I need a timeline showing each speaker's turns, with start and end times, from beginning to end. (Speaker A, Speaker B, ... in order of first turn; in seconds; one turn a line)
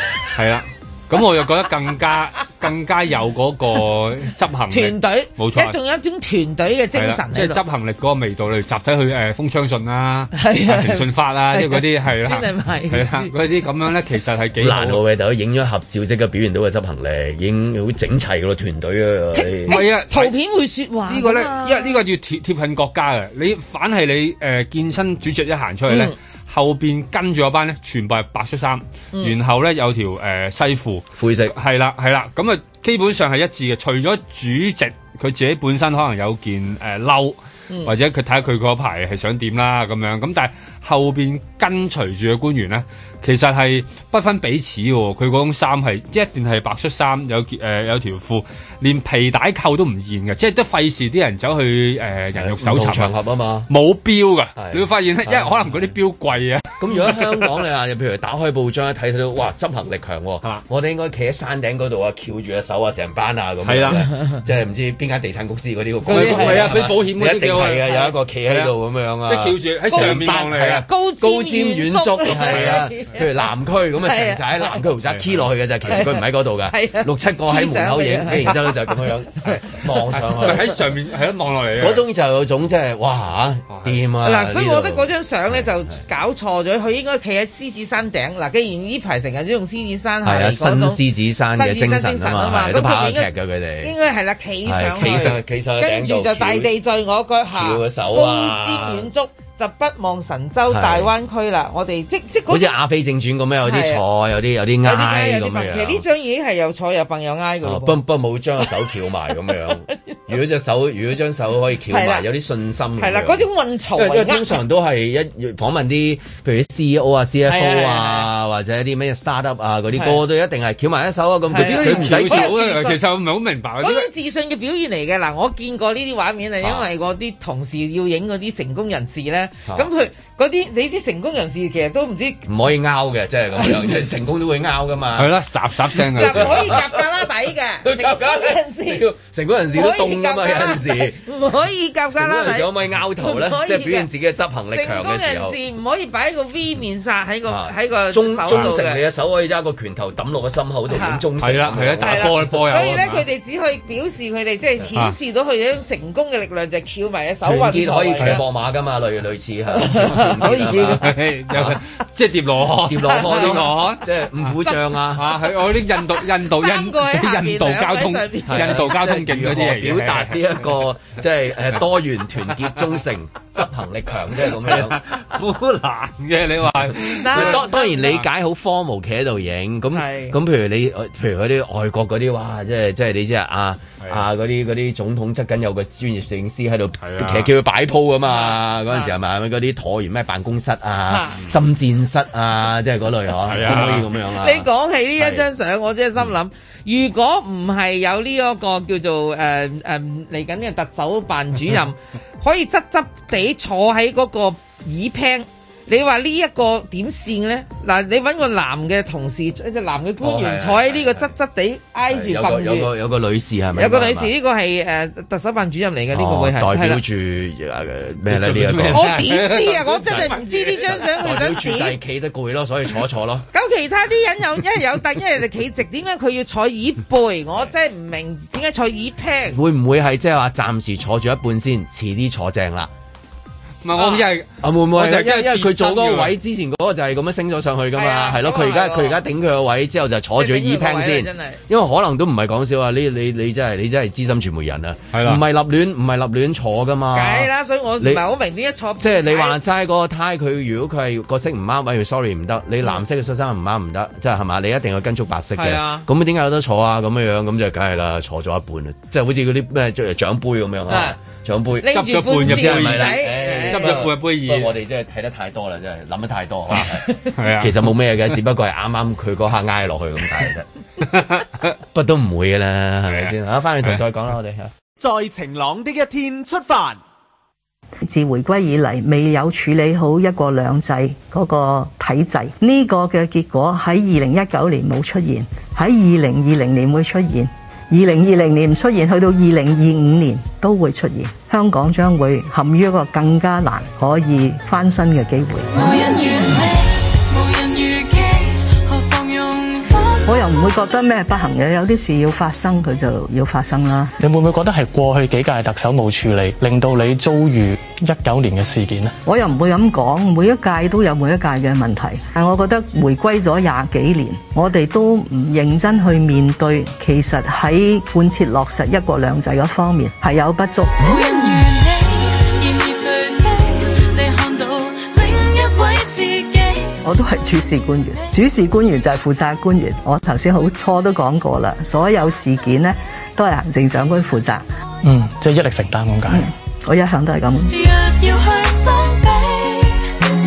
Speaker A: 0.3-5.8
Speaker B: 4.7-7.6
Speaker A: 6.9-15.0
Speaker B: 10.3-13.3
Speaker C: 14.6-19.8
Speaker B: 19.3-22.0
Speaker A: 19.7-20.3
Speaker A: 21.1-53.1
Speaker B: 25.9-26.1
Speaker C: 31.2-31.5
Speaker C: 52.3-53.7
Speaker A: 53.7-57.5
Speaker C: 54.6-55.9
Speaker C: 56.8-80.8
Speaker A: 63.6-64.0
Speaker B: 66.0-66.8
Speaker A: 66.1-67.9
Speaker A: 69.2-70.8
Speaker B: 69.9-73.5
Speaker A: 72.5-72.8
Speaker B: 74.0-74.8
Speaker A: 75.1-76.0
Speaker B: 75.9-78.5
Speaker A: 80.2-82.0
Speaker C: 81.8-85.9
Speaker A: 83.7-84.0
Speaker B: 84.2-91.0
Speaker C: 90.2-93.9
Speaker B: 91.5-93.3
Speaker B: 93.8-102.7
Speaker C: 94.7-96.7
Speaker C: 97.5-99.1
Speaker C: 100.7-101.1
Speaker C: 102.5-106.0
Speaker B: 103.6-104.0
Speaker B: 104.8-108.0
Speaker C: 107.6-122.5
Speaker B: 111.9-112.2
Speaker B: 113.0-114.6
Speaker B: 117.4-118.3
Speaker B: 119.9-120.2
Speaker B: 121.5-123.0
Speaker A: 121.6-124.1
Speaker B: 123.8-132.4
Speaker C: 132.4-135.3
Speaker A: 135.2-136.8
Speaker C: 136.1-137.0
Speaker B: 136.2-139.0
Speaker C: 137.8-141.2
Speaker B: 139.7-144.1
Speaker C: 142.1-145.6
Speaker B: 144.7-149.0
Speaker C: 147.5-152.5
Speaker B: 150.9-151.2
Speaker A: 151.4-153.2
Speaker B: 152.0-158.4
Speaker C: 157.4-161.8
Speaker B: 159.7-161.1
Speaker A: 161.0-164.0
Speaker C: 162.8-165.2
Speaker B: 163.1-163.9
Speaker A: 165.1-170.5
Speaker B: 166.1-168.9
Speaker C: 168.5-175.0
Speaker A: 174.6-178.1
Speaker B: 177.1-178.2
Speaker C: 177.3-195.4
Speaker B: 179.9-180.3
Speaker A: 187.0-187.5
Speaker B: 188.2-189.1
Speaker B: 191.1-191.4
Speaker A: 193.5-194.1
Speaker B: 194.4-212.9
Speaker C: 210.2-211.3
Speaker C: 212.1-214.3
Speaker B: 213.7-217.0
Speaker C: 216.1-219.2
Speaker A: 218.3-221.2
Speaker B: 218.9-221.9
Speaker C: 220.1-220.3
Speaker C: 220.9-223.5
Speaker B: 223.5-229.6
Speaker C: 229.5-232.9
Speaker A: 233.8-236.3
Speaker B: 233.9-234.2
Speaker C: 234.6-248.2
Speaker B: 237.9-239.2
Speaker B: 240.3-241.6
Speaker A: 245.1-245.4
Speaker B: 247.1-249.6
Speaker C: 249.0-270.7
Speaker B: 255.6-256.1
Speaker B: 260.9-261.2
Speaker B: 261.8-264.0
Speaker A: 261.9-264.8
Speaker A: 266.7-267.9
Speaker A: 271.1-271.7
Speaker C: 271.9-274.7
Speaker A: 273.1-274.0
Speaker D: 275.0-277.0
Speaker E: 278.0-295.7
Speaker F: 295.7-300.8
Speaker E: 300.3-304.1
Speaker G: 304.2-309.1
Speaker E: 309.2-321.0
Speaker F: 321.0-327.0
Speaker E: 327.0-334.6
Speaker G: 335.0-336.4
Speaker E: 336.3-337.7
Speaker F: 337.7-340.1